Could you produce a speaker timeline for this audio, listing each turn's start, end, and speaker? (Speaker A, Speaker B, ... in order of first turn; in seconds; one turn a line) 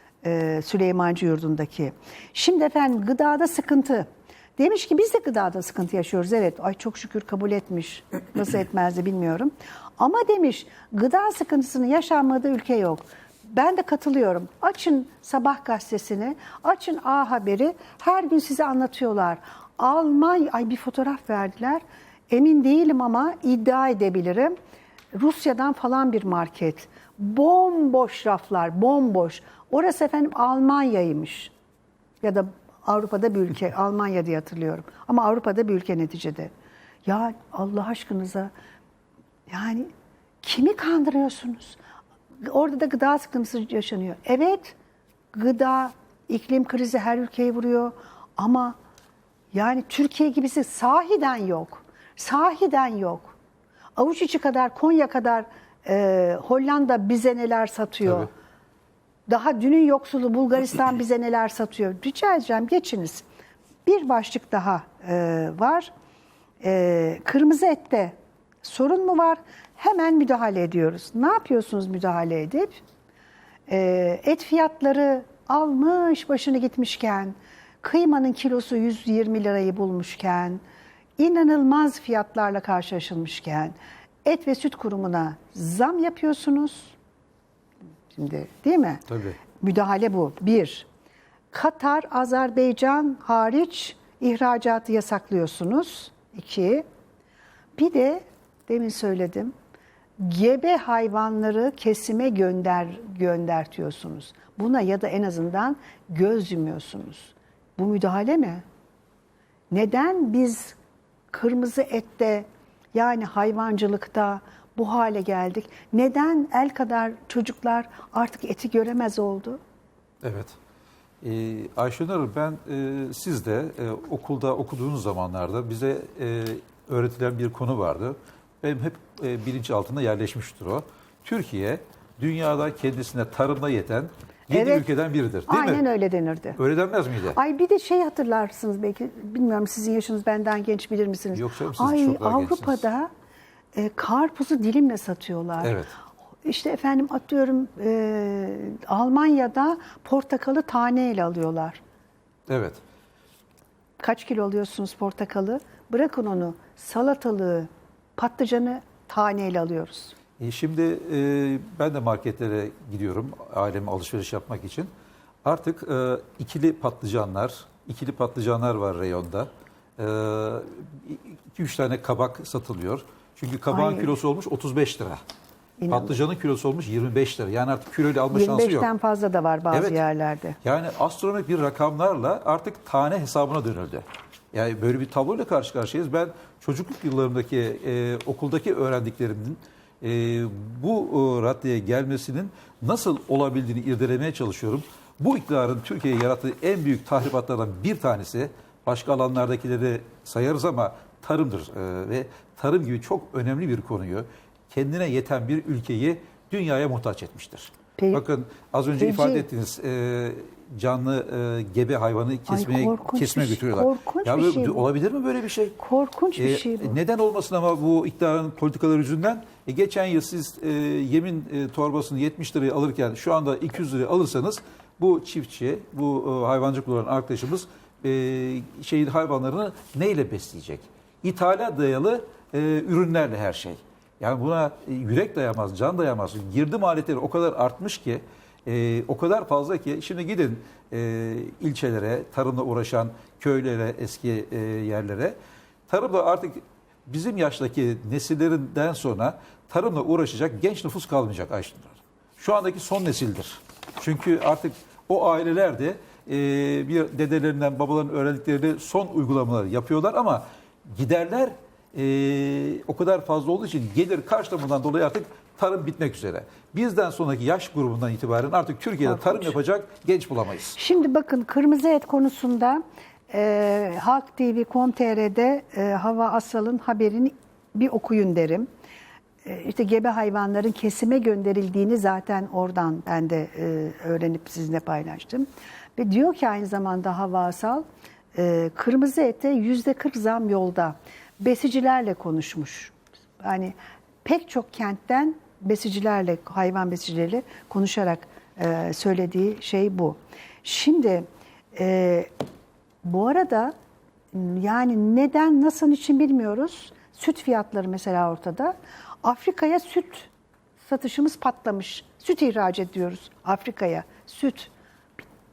Speaker A: 0.2-24.5
Speaker A: 25.1-31.5
Speaker A: 32.2-36.5
Speaker A: 37.0-38.5
Speaker A: 39.5-39.9
Speaker A: 40.4-41.8
Speaker A: 42.4-44.8
Speaker A: 45.3-48.8
Speaker A: 49.5-53.4
Speaker A: 54.0-58.3
Speaker A: 59.3-63.2
Speaker A: 63.9-65.9
Speaker A: 66.6-72.8
Speaker A: 73.7-80.6
Speaker A: 81.2-87.0
Speaker A: 88.1-89.1
Speaker B: 89.1-89.4
Speaker A: 89.6-90.9
Speaker A: 91.5-96.8
Speaker A: 97.8-99.5
Speaker A: 100.2-108.6
Speaker A: 109.7-110.8
Speaker A: 111.3-119.6
Speaker B: 120.2-120.6
Speaker B: 121.2-135.8
Speaker A: 134.5-134.8
Speaker A: 135.5-136.6
Speaker B: 136.6-137.4
Speaker A: 137.3-143.1
Speaker B: 141.3-142.8
Speaker A: 143.7-145.8
Speaker B: 145.6-145.9
Speaker A: 146.4-151.8
Speaker B: 152.5-152.8
Speaker A: 154.0-160.1
Speaker B: 160.4-164.9
Speaker B: 165.4-175.2
Speaker A: 173.7-174.1
Speaker A: 175.8-176.2
Speaker B: 175.9-178.9
Speaker A: 178.3-180.6
Speaker B: 179.7-180.0
Speaker B: 180.6-215.8
Speaker A: 208.0-208.2
Speaker A: 209.0-209.5
Speaker A: 212.5-214.8
Speaker A: 215.8-217.0
Speaker B: 216.4-245.4
Speaker B: 245.9-270.8
Speaker A: 269.1-269.5
Speaker A: 270.8-278.7
Speaker A: 279.4-302.3
Speaker A: 303.0-303.7
Speaker A: 304.3-310.3
Speaker A: 310.8-315.2